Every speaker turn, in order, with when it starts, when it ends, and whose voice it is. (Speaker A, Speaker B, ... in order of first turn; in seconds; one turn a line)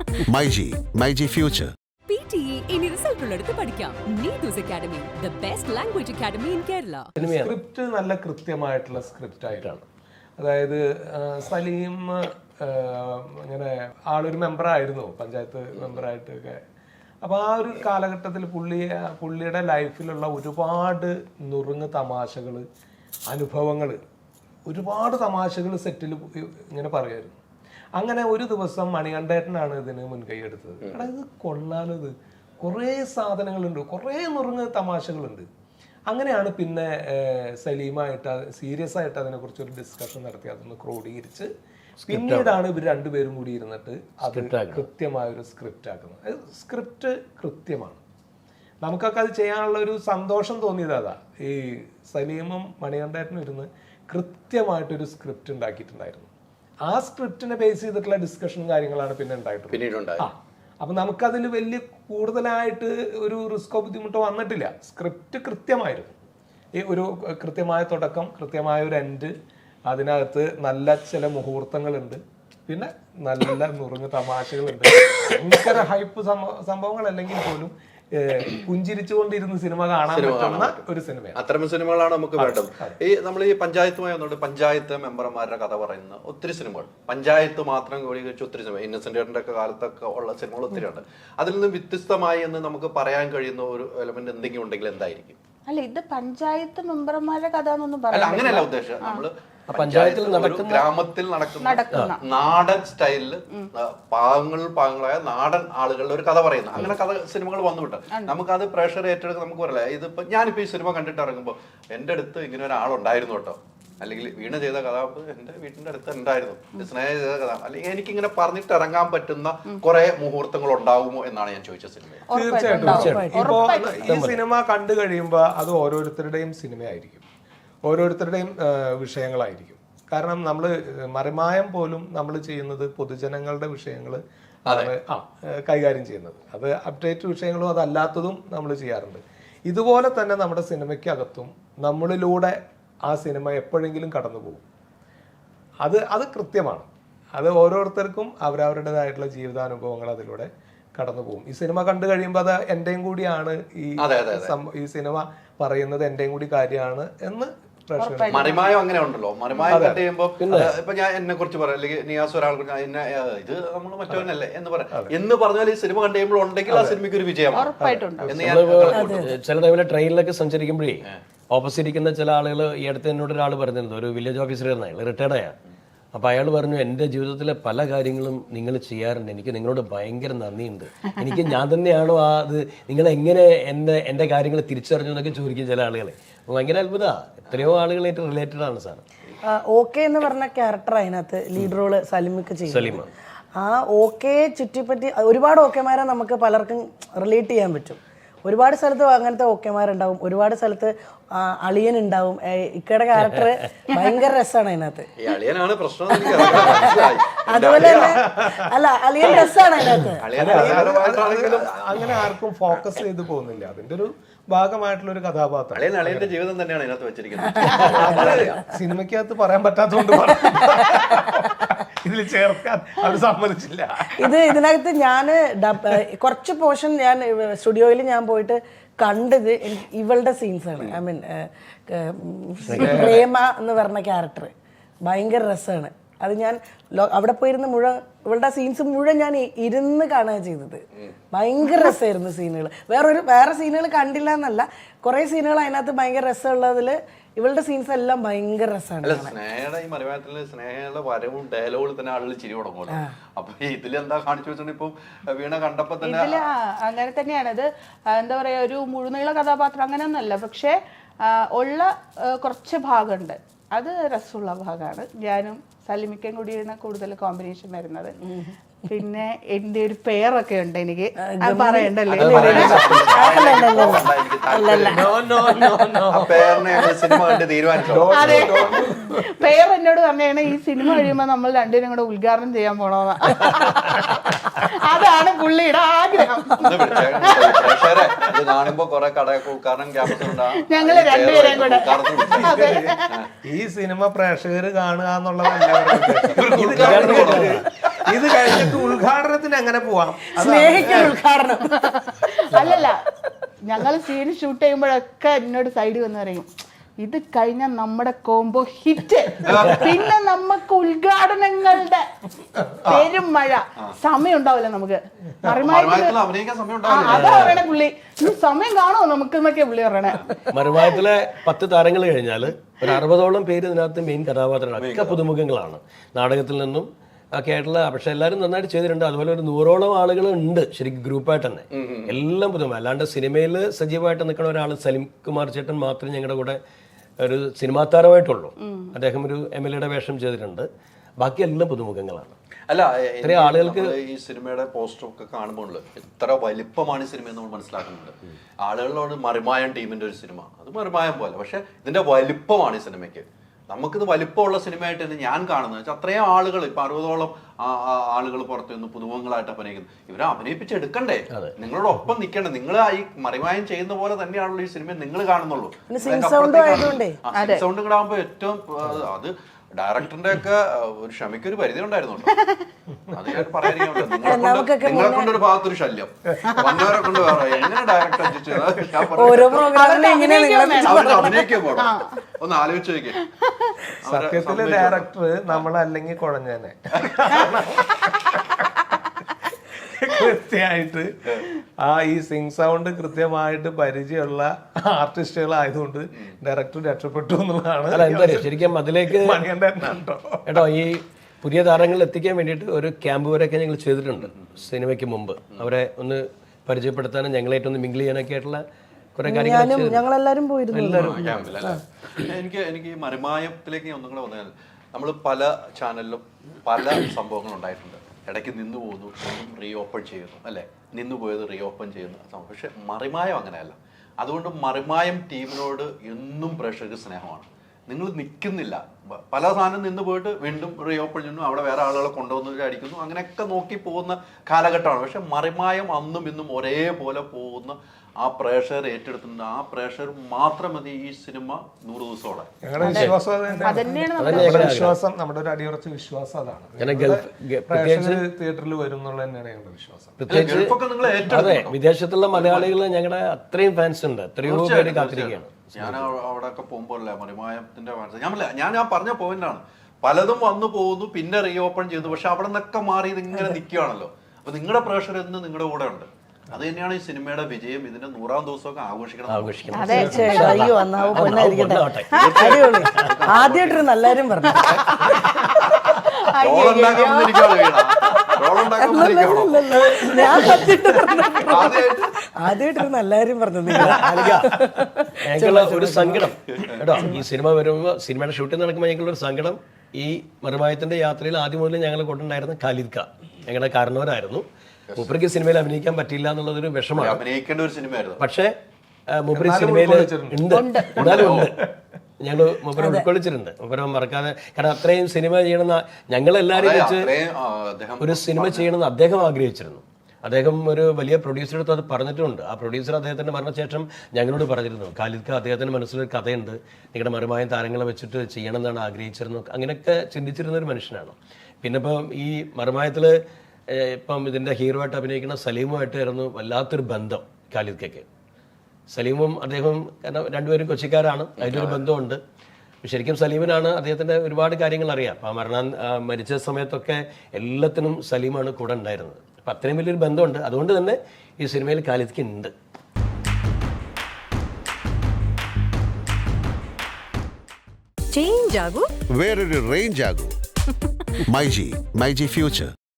Speaker A: 0.3-1.7
Speaker B: 2.1-7.1
Speaker C: 7.2-7.5
Speaker D: 7.2-9.8
Speaker C: 9.5-9.8
Speaker D: 10.4-16.6
Speaker D: 17.2-22.6
Speaker D: 23.3-24.0
Speaker D: 24.6-27.4
Speaker D: 28.0-35.5
Speaker D: 36.1-41.5
Speaker C: 42.0-42.6
Speaker D: 42.0-48.0
Speaker C: 44.3-44.9
Speaker D: 48.8-56.3
Speaker D: 56.9-66.1
Speaker E: 59.7-60.2
Speaker D: 66.8-69.3
Speaker D: 69.9-81.4
Speaker E: 80.1-80.8
Speaker E: 81.3-95.4
Speaker D: 82.4-83.0
Speaker F: 95.7-99.2
Speaker E: 98.1-122.2
Speaker C: 99.7-100.9
Speaker F: 101.5-102.2
Speaker F: 122.3-124.2
Speaker D: 122.3-127.2
Speaker G: 122.7-123.6
Speaker C: 122.9-123.3
Speaker C: 124.1-124.4
Speaker D: 127.8-144.6
Speaker D: 145.8-158.6
Speaker E: 154.0-154.5
Speaker F: 157.9-158.8
Speaker E: 158.3-169.3
Speaker F: 159.5-159.8
Speaker D: 159.7-160.1
Speaker C: 160.4-160.7
Speaker D: 166.7-167.0
Speaker F: 167.5-168.3
Speaker D: 167.8-168.3
Speaker C: 168.3-175.6
Speaker G: 168.9-169.3
Speaker C: 176.1-189.0
Speaker G: 189.5-205.1
Speaker C: 192.7-193.1
Speaker E: 205.2-208.2
Speaker G: 206.2-210.2
Speaker D: 208.0-208.6
Speaker E: 210.2-212.0
Speaker D: 210.4-216.3
Speaker E: 215.7-218.6
Speaker D: 217.8-224.4
Speaker G: 224.2-234.5
Speaker C: 232.7-233.2
Speaker D: 232.8-233.2
Speaker G: 235.0-249.3
Speaker E: 249.0-256.4
Speaker F: 256.0-268.2
Speaker G: 268.2-268.9
Speaker F: 268.9-272.8
Speaker G: 271.2-275.7
Speaker E: 272.1-275.1
Speaker C: 272.1-273.1
Speaker D: 274.9-276.5
Speaker E: 276.1-278.8
Speaker D: 277.8-279.3
Speaker F: 278.1-287.9
Speaker E: 286.6-292.6
Speaker F: 290.4-293.1
Speaker D: 292.4-301.2
Speaker E: 296.3-297.5
Speaker C: 296.7-297.6
Speaker G: 300.4-301.9
Speaker F: 302.0-302.9
Speaker F: 303.7-306.5
Speaker F: 307.0-312.1
Speaker E: 309.4-309.9
Speaker F: 312.8-316.2
Speaker E: 312.8-313.1
Speaker E: 315.4-317.6
Speaker F: 316.8-320.3
Speaker C: 317.1-317.6
Speaker C: 320.5-336.6
Speaker E: 324.8-325.2
Speaker E: 331.8-332.1
Speaker C: 337.2-340.7
Speaker C: 341.2-342.3
Speaker E: 342.7-372.4
Speaker C: 343.2-343.9
Speaker G: 365.9-367.2
Speaker F: 367.3-367.7
Speaker F: 372.3-372.6
Speaker E: 373.1-379.7
Speaker G: 374.2-375.4
Speaker F: 376.4-376.8
Speaker G: 379.1-381.6
Speaker F: 379.6-382.2
Speaker E: 380.8-383.2
Speaker F: 383.1-383.7
Speaker E: 384.0-385.6
Speaker D: 384.1-388.6
Speaker D: 389.8-400.6
Speaker C: 397.9-399.5
Speaker C: 400.4-408.6
Speaker C: 409.1-410.0
Speaker G: 409.2-411.8
Speaker C: 410.7-411.5
Speaker E: 411.0-442.5
Speaker D: 442.6-450.2
Speaker C: 442.9-443.1
Speaker F: 442.9-444.8
Speaker C: 444.1-444.9
Speaker C: 446.8-448.2
Speaker C: 450.2-456.1
Speaker E: 450.3-451.8
Speaker E: 452.3-452.8
Speaker E: 454.4-469.9
Speaker C: 469.3-472.1
Speaker F: 469.7-470.4
Speaker D: 469.8-470.7
Speaker G: 469.9-475.1
Speaker E: 470.9-471.4
Speaker E: 472.1-473.9
Speaker F: 472.1-472.5
Speaker E: 474.4-474.9
Speaker F: 475.9-478.3
Speaker E: 476.4-479.9
Speaker G: 478.8-481.9
Speaker F: 479.9-480.5
Speaker D: 479.9-481.2
Speaker E: 481.4-482.1
Speaker G: 482.4-486.3
Speaker D: 483.8-484.4
Speaker C: 483.8-484.5
Speaker C: 485.2-497.2
Speaker E: 496.9-498.2
Speaker C: 498.2-498.6
Speaker C: 499.1-501.6
Speaker D: 499.3-501.7
Speaker F: 500.5-501.0
Speaker E: 500.9-501.5
Speaker C: 502.2-507.1
Speaker G: 502.8-503.1
Speaker E: 506.5-508.7
Speaker C: 508.0-528.1
Speaker C: 528.9-532.2
Speaker E: 531.4-531.8
Speaker C: 532.8-542.5
Speaker B: 548.1-548.9
Speaker A: 549.1-550.4
Speaker A: 551.3-552.7